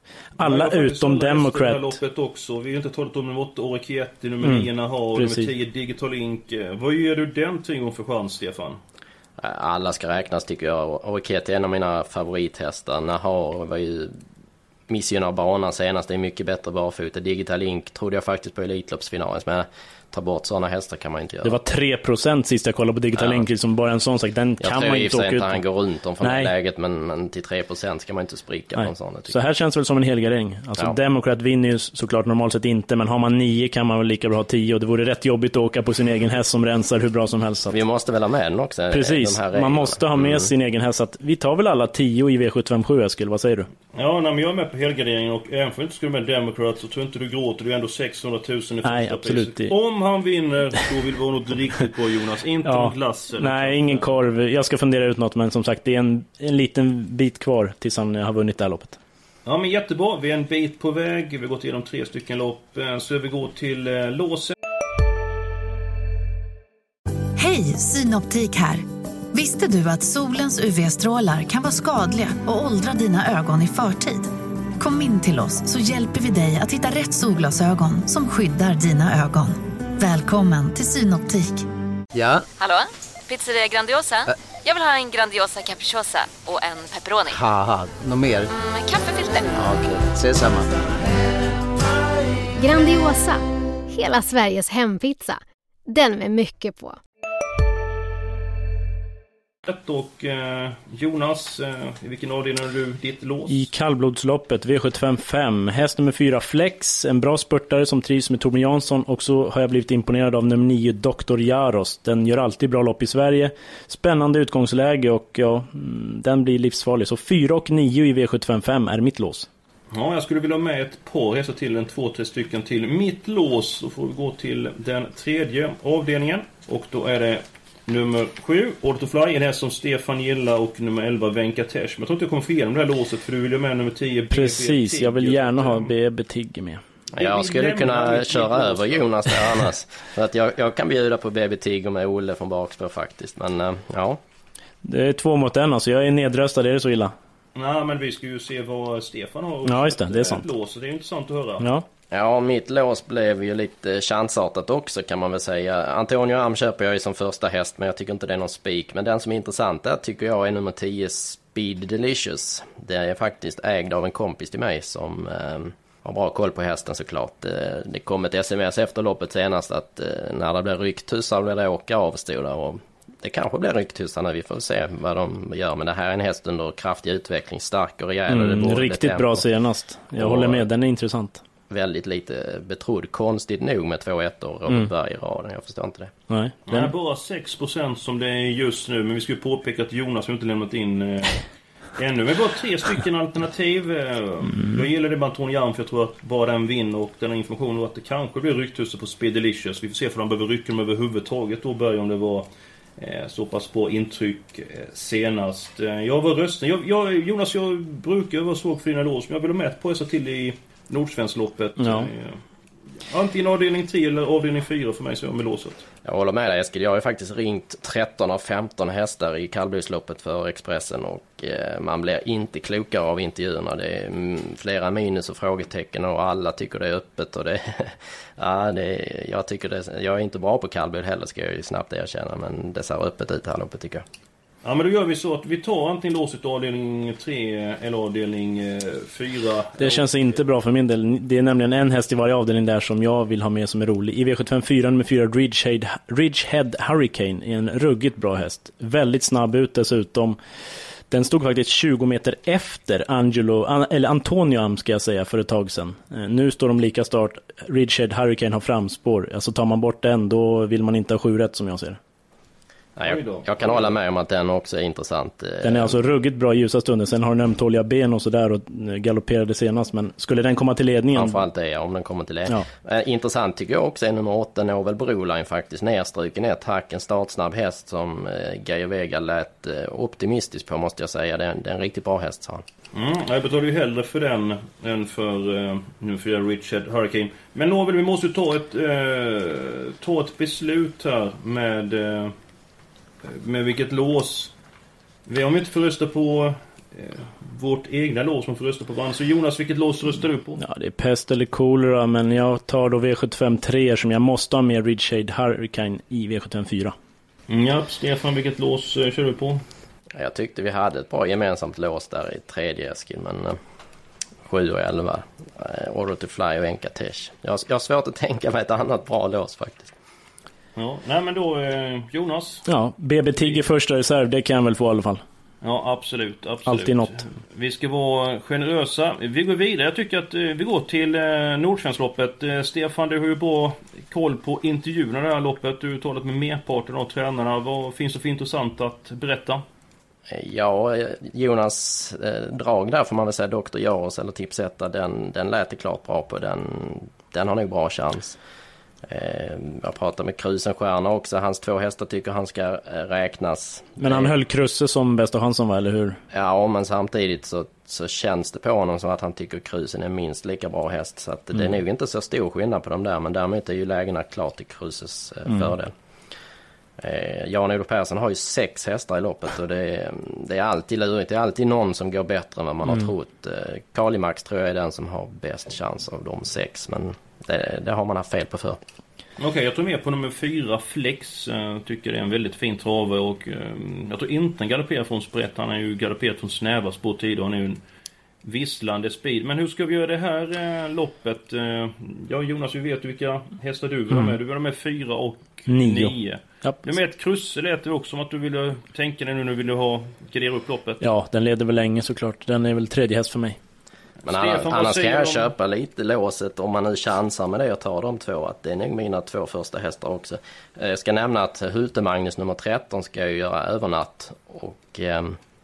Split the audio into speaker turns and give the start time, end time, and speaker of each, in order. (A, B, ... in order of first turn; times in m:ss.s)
0:00.4-0:02.0 A
0:00.4-0:08.8 B
0:04.4-0:05.5 A
0:09.4-0:14.2 C
0:14.9-0:21.6 C
0:21.4-0:25.6 A
0:23.2-0:23.4 C
0:24.6-0:29.4 C
0:26.2-0:26.5 A
0:28.8-0:37.8 A
0:37.7-0:40.5 C
0:38.9-0:43.7 A
0:43.9-0:54.1 B
0:48.8-0:49.7 A
0:52.6-0:59.0 A
0:59.4-1:04.5 B
1:07.4-1:21.6 D
1:22.1-1:22.4 E
1:22.6-1:27.4 F
1:27.3-1:28.5 E
1:28.5-1:29.5 F
1:29.5-1:30.8 E
1:32.6-1:37.0 G
1:39.6-1:43.7 B
1:43.5-1:59.5 A
1:59.9-2:15.9 B
2:14.3-2:16.8 A
2:17.1-2:19.4 B
2:17.2-2:24.2 C
2:24.8-2:27.1 A
2:27.6-2:31.6 B
2:29.6-2:30.4 A
2:32.1-2:59.4 C
2:58.3-3:01.4 A
3:00.2-3:00.6 C
3:01.7-3:06.1 C
3:06.3-3:06.9 A
3:06.7-3:11.4 B
3:12.0-3:32.4 B
3:14.5-3:14.8 A
3:31.8-3:32.1 A
3:33.0-3:35.8 B
3:36.0-3:54.0 C
3:54.6-4:00.4 B
3:59.8-4:10.4 A
4:11.1-4:22.0 A
4:23.0-4:26.0 C
4:23.0-4:23.9 B
4:25.6-4:31.4 A
4:31.1-4:42.6 C
4:42.9-4:52.3 B
4:53.2-4:54.5 B
4:55.3-5:00.6 B
5:00.6-5:06.9 A
5:07.5-5:09.6 B
5:10.1-5:13.6 C
5:14.4-5:19.9 C
5:20.8-5:22.6 B
5:22.7-5:25.2 A
5:25.6-5:39.6 B
5:26.6-5:27.2 A
5:40.3-5:48.4 C
5:49.1-5:54.3 C
5:54.0-5:56.2 A
5:56.3-6:05.9 C
6:07.0-6:18.8 C
6:19.4-6:27.8 B
6:28.4-6:41.1 B
6:35.7-6:36.8 A
6:41.0-6:43.6 A
6:44.2-6:45.5 B
6:44.2-6:55.4 C